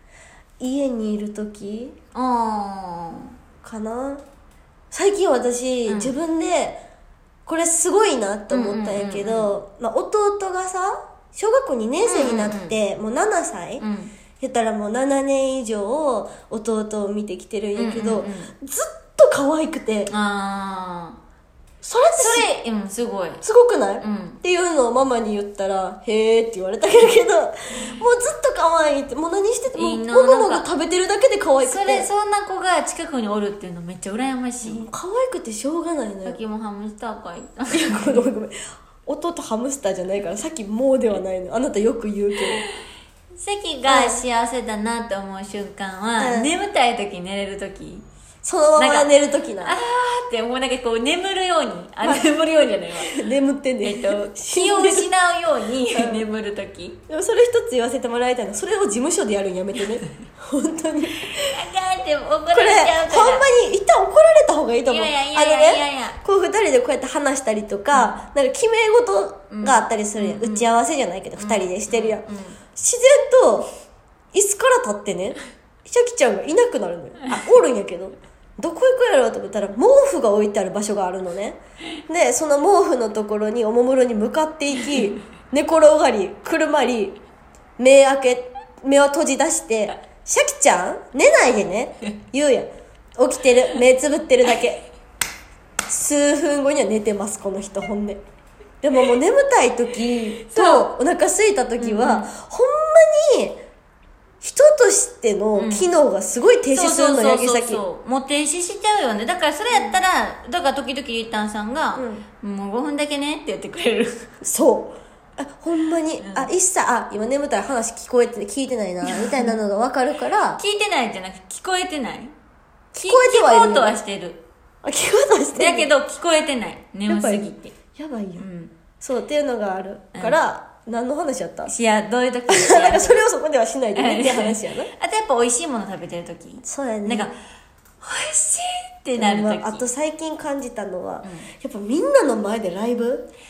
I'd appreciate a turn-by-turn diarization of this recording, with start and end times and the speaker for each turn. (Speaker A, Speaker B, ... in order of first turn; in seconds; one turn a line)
Speaker A: 0.6-2.0
Speaker B: 2.1-3.3
Speaker A: 3.6-4.2
Speaker A: 4.9-6.8
Speaker B: 5.9-6.2
Speaker A: 7.5-13.8
Speaker B: 8.5-9.5
Speaker B: 12.0-12.8
Speaker B: 13.8-14.1
Speaker A: 14.4-20.1
Speaker B: 17.8-18.5
Speaker B: 20.1-21.2
Speaker A: 21.8-22.5
Speaker B: 22.1-23.4
Speaker A: 23.4-32.1
Speaker B: 24.0-24.4
Speaker B: 29.7-30.7
Speaker B: 31.6-34.9
Speaker A: 34.6-36.4
Speaker B: 36.2-38.2
Speaker A: 37.7-42.6
Speaker B: 43.4-48.1
Speaker A: 43.9-44.2
Speaker A: 46.2-46.5
Speaker A: 48.4-49.8
Speaker B: 48.8-49.1
Speaker B: 49.6-53.1
Speaker A: 52.0-52.3
Speaker A: 53.0-55.1
Speaker B: 53.8-57.0
Speaker A: 55.9-56.2
Speaker A: 57.1-61.5
Speaker B: 61.3-63.5
Speaker A: 62.5-73.7
Speaker B: 64.8-66.2
Speaker B: 67.9-68.2
Speaker B: 69.5-70.7
Speaker B: 71.4-72.6
Speaker A: 74.3-87.2
Speaker A: 87.8-94.9
Speaker A: 95.9-98.2
Speaker A: 98.8-103.6
Speaker B: 100.5-100.8
Speaker B: 101.8-102.3
Speaker A: 104.4-107.8
Speaker B: 105.6-105.9
Speaker B: 106.7-114.3
Speaker A: 109.7-110.0
Speaker A: 112.0-112.2
Speaker A: 114.4-120.6
Speaker B: 116.2-116.5
Speaker B: 119.0-119.5
Speaker B: 120.6-122.3
Speaker A: 122.9-124.0
Speaker B: 123.0-124.4
Speaker A: 124.8-125.9
Speaker B: 125.6-127.7
Speaker A: 127.1-128.4
Speaker B: 128.4-128.7
Speaker A: 129.0-131.7
Speaker B: 131.7-133.2
Speaker A: 132.5-134.9
Speaker B: 133.9-137.4
Speaker A: 136.6-137.3
Speaker B: 138.0-139.8
Speaker A: 139.2-143.3